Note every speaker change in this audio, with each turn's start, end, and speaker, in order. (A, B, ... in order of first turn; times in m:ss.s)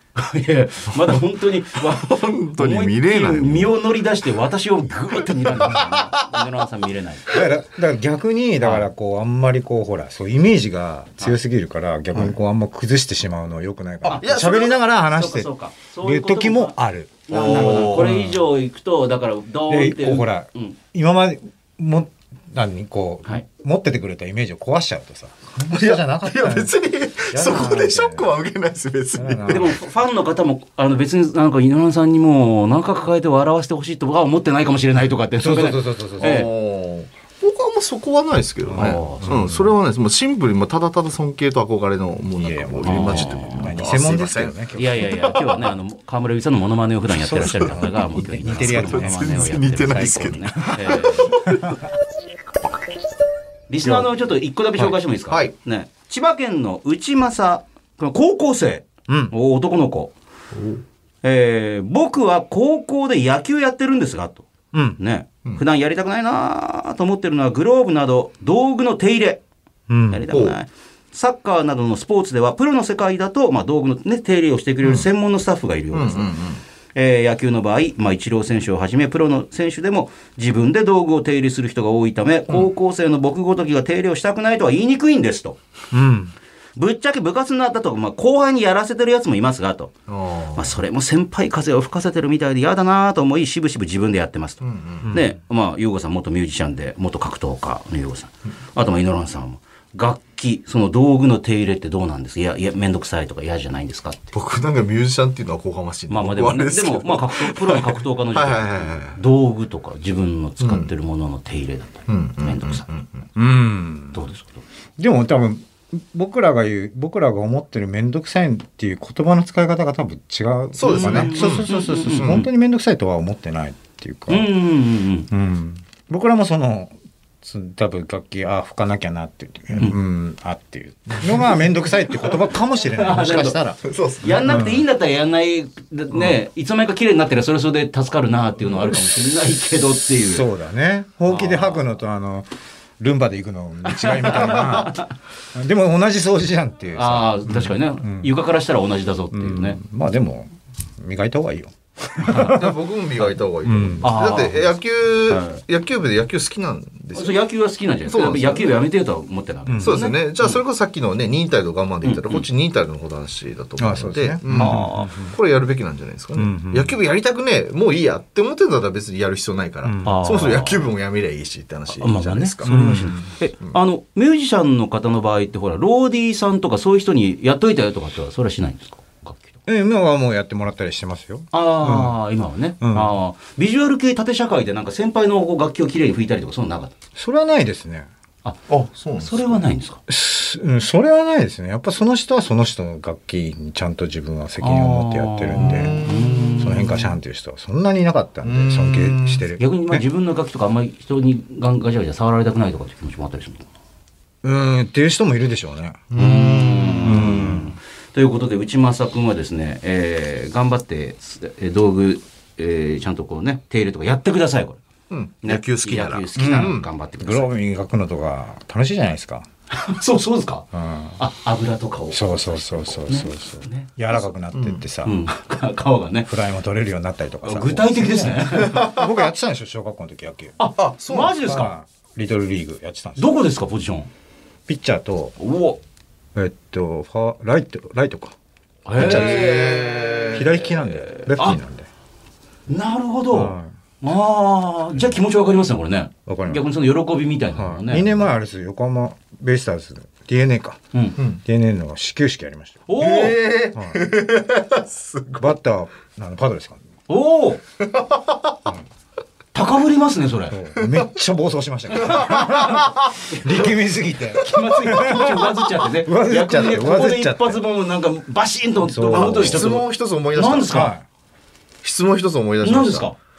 0:00.2-0:07.4 A
0:00.9-0:03.8 B
0:05.5-0:06.3 B
0:07.3-0:15.5 C
0:08.6-0:08.9 A
0:14.0-0:14.8 B
0:14.1-0:14.5 A
0:15.2-0:16.8 A
0:16.0-0:18.5 C
0:17.3-0:20.8 A
0:17.3-0:18.2 B
0:19.7-0:26.7 C
0:25.6-0:29.8 B
0:27.3-0:28.3 C
0:29.2-0:29.8 C
0:29.5-0:36.5 A
0:35.4-0:36.4 C
0:36.2-0:45.2 B
0:38.7-0:39.8 C
0:38.7-0:39.4 A
0:42.4-0:45.2 C
0:42.8-0:43.8 A
0:44.8-0:51.4 A
0:47.2-0:51.6 C
0:47.5-0:47.8 B
0:48.5-0:51.8 B
0:53.7-1:00.1 A
0:53.8-0:54.1 C
0:59.1-0:59.3 C
1:00.6-1:00.8 B
1:01.2-1:04.5 A
1:04.7-1:05.0 C
1:05.0-1:09.4 A
1:09.9-1:10.3 C
1:10.1-1:16.4 A
1:10.3-1:10.6 B
1:14.8-1:15.1 B
1:15.9-1:16.6 B
1:17.0-1:25.6 A
1:25.9-1:26.3 C
1:26.8-1:29.9 A
1:30.1-1:30.8 B
1:30.6-1:44.3 A
1:34.6-1:35.1 B
1:35.0-1:35.3 C
1:44.3-1:49.2 B
1:46.1-1:52.9 A
1:50.6-1:50.9 B
1:52.1-1:53.2 B
1:53.4-1:54.2 C
1:54.1-1:54.6 A
1:55.0-2:04.5 C
2:00.8-2:02.5 B
2:00.8-2:02.5 A
2:04.3-2:05.3 A
2:05.3-2:13.8 C
2:11.1-2:11.6 B
2:12.9-2:13.6 A
2:13.8-2:14.6 B
2:14.2-2:20.5 A
2:14.4-2:14.8 C
2:18.6-2:19.2 C
2:20.3-2:28.3 C
2:21.3-2:21.9 A
2:23.9-2:25.1 A
2:27.0-2:29.8 A
2:29.3-2:32.8 C
2:32.2-2:32.6 A
2:32.3-2:37.4 B
2:33.6-2:34.2 C
2:34.0-2:34.7 A
2:35.3-2:35.6 A
2:37.2-2:40.6 A
2:38.1-2:38.8 B
2:39.7-2:40.0 C
2:39.8-2:53.8 B
2:42.0-2:42.5 A
2:43.8-2:45.4 C
2:44.5-2:45.3 A
2:46.4-2:47.0 C
2:49.8-2:50.2 C
2:50.0-2:50.9 A
2:51.9-2:59.6 A
2:52.6-2:53.2 C
2:59.7-3:02.2 C
3:01.5-3:06.9 A
3:02.8-3:03.1 C
3:07.2-3:08.1 C
3:08.7-3:09.7 B
3:09.2-3:10.0 A
3:10.1-3:16.0 C
3:14.6-3:17.2 A
3:15.6-3:16.8 B
3:16.6-3:20.0 C
3:18.4-3:19.5 B
3:19.6-3:23.7 A
3:24.4-3:26.1 C
3:26.1-3:27.4 B
3:26.2-3:34.8 A
3:27.0-3:27.8 C
3:35.1-3:36.9 B
3:35.4-3:37.5 A
3:36.4-3:39.5 C
3:39.7-3:40.7 A
3:40.7-3:41.2 C
3:41.2-3:43.9 A
3:42.1-3:45.2 C
3:44.5-3:44.8 B
3:45.0-3:46.3 A
3:46.3-3:50.6 C
3:47.4-3:49.0 A
3:48.6-3:49.1 B
3:50.6-3:51.7 A
3:50.8-3:51.6 B
3:51.4-3:53.3 C
3:53.2-3:54.1 A
3:54.7-3:55.4 C
3:55.4-3:55.8 A
3:56.4-3:58.4 C
3:58.9-4:01.6 A
3:59.0-3:59.8 C
3:59.0-4:00.6 B
4:00.3-4:01.9 C
4:02.7-4:08.2 A
4:03.3-4:03.7 C
4:06.3-4:06.6 C
4:07.5-4:10.8 C
4:10.9-4:11.2 A
4:11.4-4:12.9 C
4:12.9-4:13.4 A
4:13.0-4:15.6 B
4:13.8-4:14.1 C
4:15.4-4:16.8 C
4:17.1-4:17.6 A
4:17.8-4:18.6 B
4:19.5-4:20.6 A
4:20.5-4:27.6 C
4:20.8-4:21.1 B
4:21.9-4:23.8 A
4:22.0-4:23.2 B
4:24.3-4:30.9 A
4:28.8-4:29.7 C
4:29.1-4:30.8 B
4:30.7-4:31.0 C
4:31.8-4:33.1 B
4:32.6-4:33.2 A